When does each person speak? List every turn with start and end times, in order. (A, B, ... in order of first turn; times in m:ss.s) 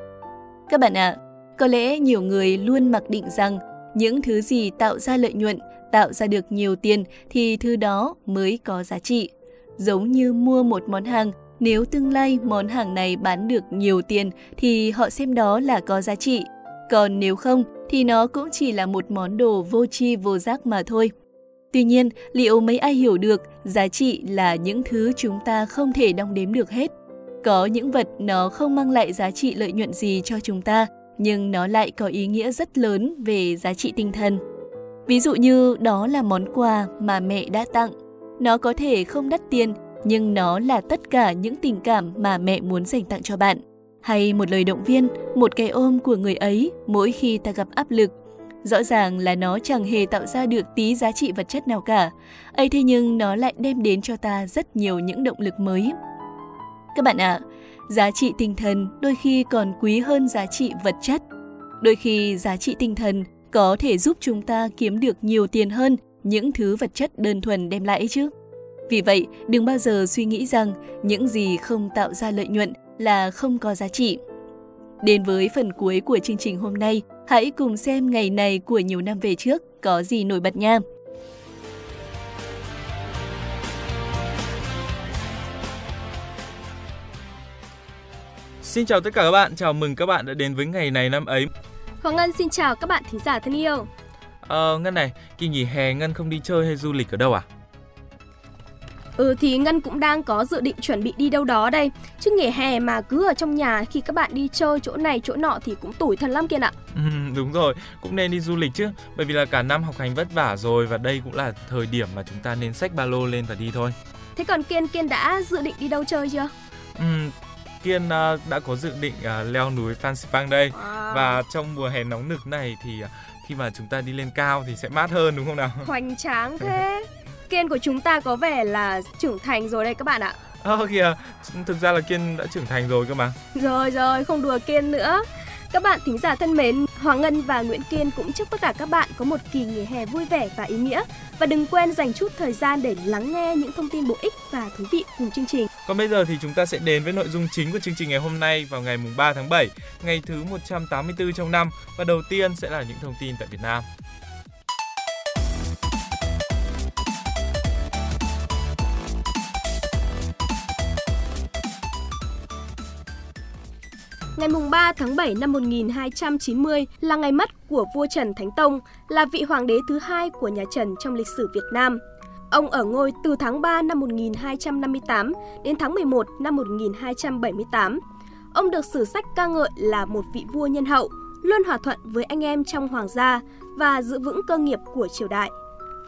0:00.7-0:21.1 A
0:21.7-0:34.4 A
0:35.1-0:56.0 A
0:57.0-1:01.2 A
1:01.8-1:08.3 A
1:08.9-1:14.2 A
1:15.0-1:20.8 A
1:28.6-1:31.5 B
1:32.0-1:33.9 C
1:34.4-1:37.5 B
1:39.2-1:46.7 C
1:46.9-1:54.0 B
1:54.4-1:56.5 C
1:57.0-2:05.9 B
2:00.7-2:01.4 C
2:05.8-2:10.4 C
2:10.6-2:13.4 B
2:13.5-2:25.7 C
2:25.9-2:33.9 B
2:44.4-2:58.0 C
2:58.5-3:05.5 C